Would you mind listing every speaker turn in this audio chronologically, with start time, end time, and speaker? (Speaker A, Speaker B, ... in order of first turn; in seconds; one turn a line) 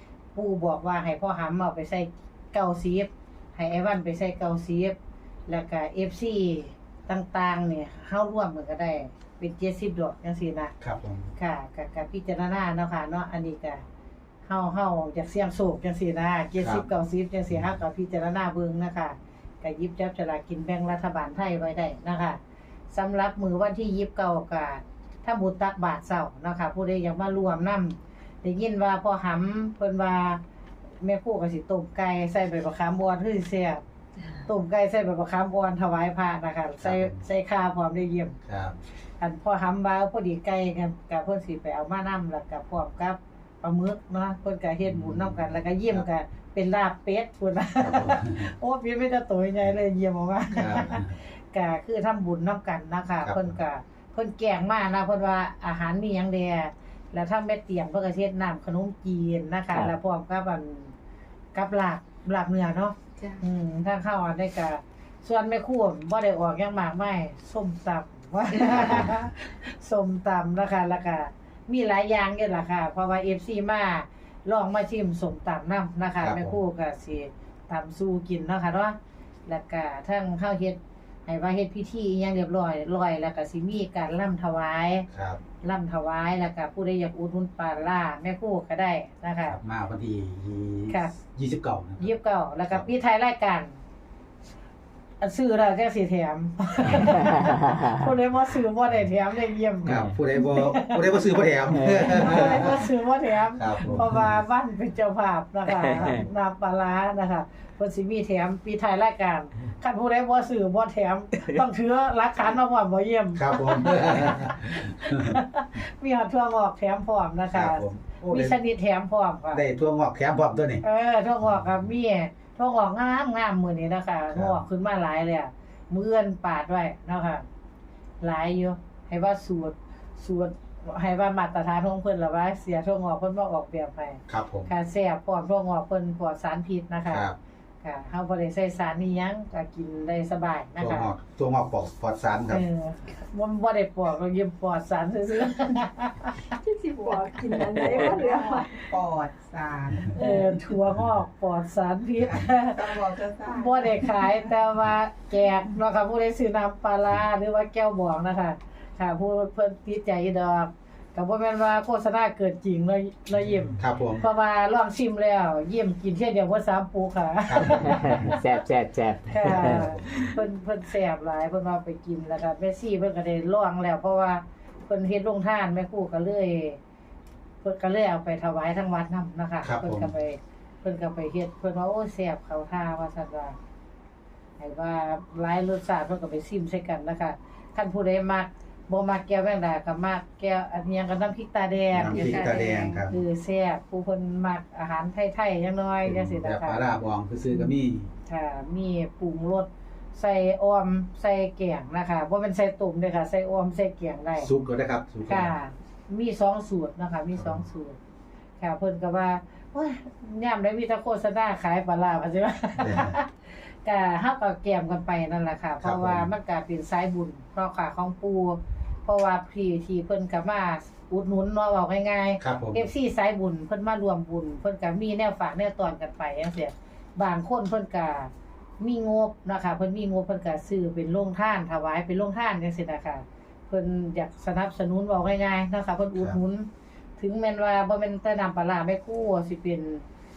Speaker A: 0.3-5.0
Speaker A: 5.5-10.7
Speaker B: 10.8-11.3
Speaker A: 11.4-13.8
Speaker A: 14.4-22.4
Speaker B: 16.6-16.9
Speaker A: 22.9-30.4
Speaker A: 31.0-33.8
Speaker A: 34.4-38.4
Speaker B: 36.8-37.2
Speaker B: 38.5-38.8
Speaker A: 39.2-60.9
Speaker B: 44.9-46.1
Speaker B: 47.8-48.5
Speaker B: 50.5-51.2
Speaker B: 53.2-53.6
Speaker A: 61.5-79.0
Speaker C: 63.2-63.4
Speaker B: 76.2-76.6
Speaker A: 79.5-85.1
Speaker B: 85.1-85.4
Speaker A: 85.6-89.6
Speaker B: 89.5-92.1
Speaker A: 90.9-91.1
Speaker A: 92.0-93.8
Speaker A: 95.2-101.3
Speaker D: 96.9-98.0
Speaker B: 99.9-102.9
Speaker D: 101.7-102.6
Speaker A: 102.0-119.7
Speaker B: 103.5-104.1
Speaker D: 105.7-106.2
Speaker B: 113.3-115.4
Speaker B: 117.5-118.6
Speaker B: 119.5-120.8
Speaker A: 120.8-127.4
Speaker B: 124.3-124.6
Speaker A: 128.2-137.3
Speaker B: 134.3-134.7
Speaker B: 137.1-137.4
Speaker A: 137.8-141.1
Speaker B: 140.8-142.6
Speaker A: 142.5-146.4
Speaker C: 146.5-148.7
Speaker D: 147.5-147.8
Speaker E: 147.8-150.2
Speaker A: 147.9-148.2
Speaker A: 150.2-153.0
Speaker E: 152.2-154.5
Speaker A: 153.5-168.5
Speaker B: 163.8-164.2
Speaker B: 167.5-168.3
Speaker D: 167.8-170.0
Speaker A: 169.3-176.8
Speaker B: 169.4-170.3
Speaker A: 177.6-183.6
Speaker B: 179.6-180.1
Speaker A: 184.6-192.5
Speaker B: 191.9-193.2
Speaker C: 192.0-193.0
Speaker A: 193.1-196.8
Speaker B: 196.0-198.1
Speaker A: 198.3-204.5
Speaker B: 204.4-205.5
Speaker A: 205.3-208.0
Speaker A: 208.6-240.0
Speaker B: 212.8-213.2
Speaker B: 215.8-216.3
Speaker B: 222.4-222.8